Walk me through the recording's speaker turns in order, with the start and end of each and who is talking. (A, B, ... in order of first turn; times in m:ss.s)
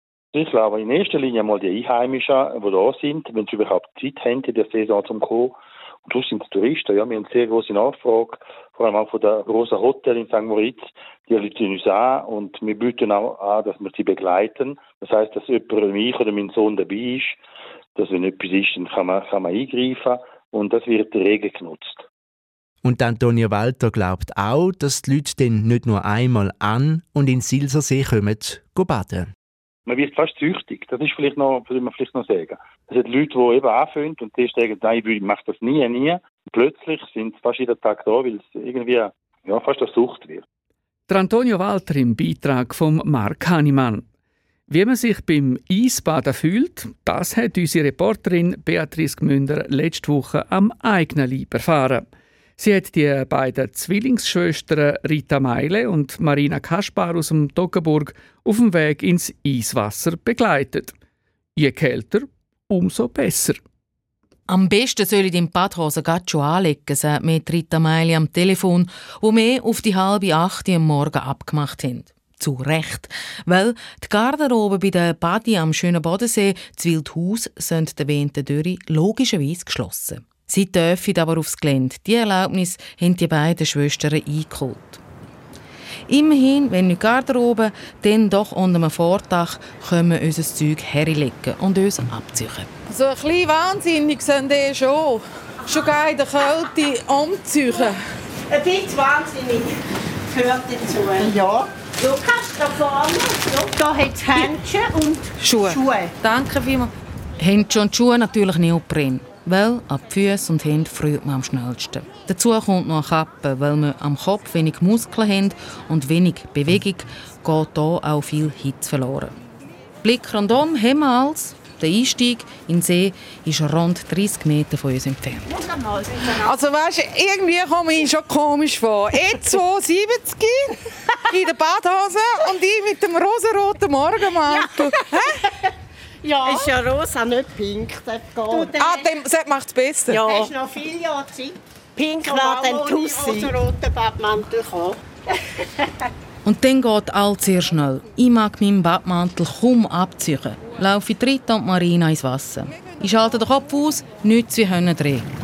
0:00.3-0:17.4 A
0:18.0-0:22.0 A
0:22.8-0:29.3 B
0:29.9-0:40.4 A
0:41.1-0:44.0 C
0:44.7-0:52.0 C
0:52.6-1:00.9 C
1:01.6-1:03.6 C
1:04.5-1:25.0 D
1:26.1-1:32.7 D
1:32.9-1:38.0 E
1:38.5-1:39.7 F
1:40.3-1:46.1 F
1:45.4-1:45.8 E
1:46.2-1:59.4 D
2:00.0-2:05.6 D
2:05.6-2:06.2 F
2:06.3-2:15.4 E
2:16.2-2:19.1 F
2:18.5-2:20.5 E
2:20.1-2:25.0 F
2:26.4-2:35.3 D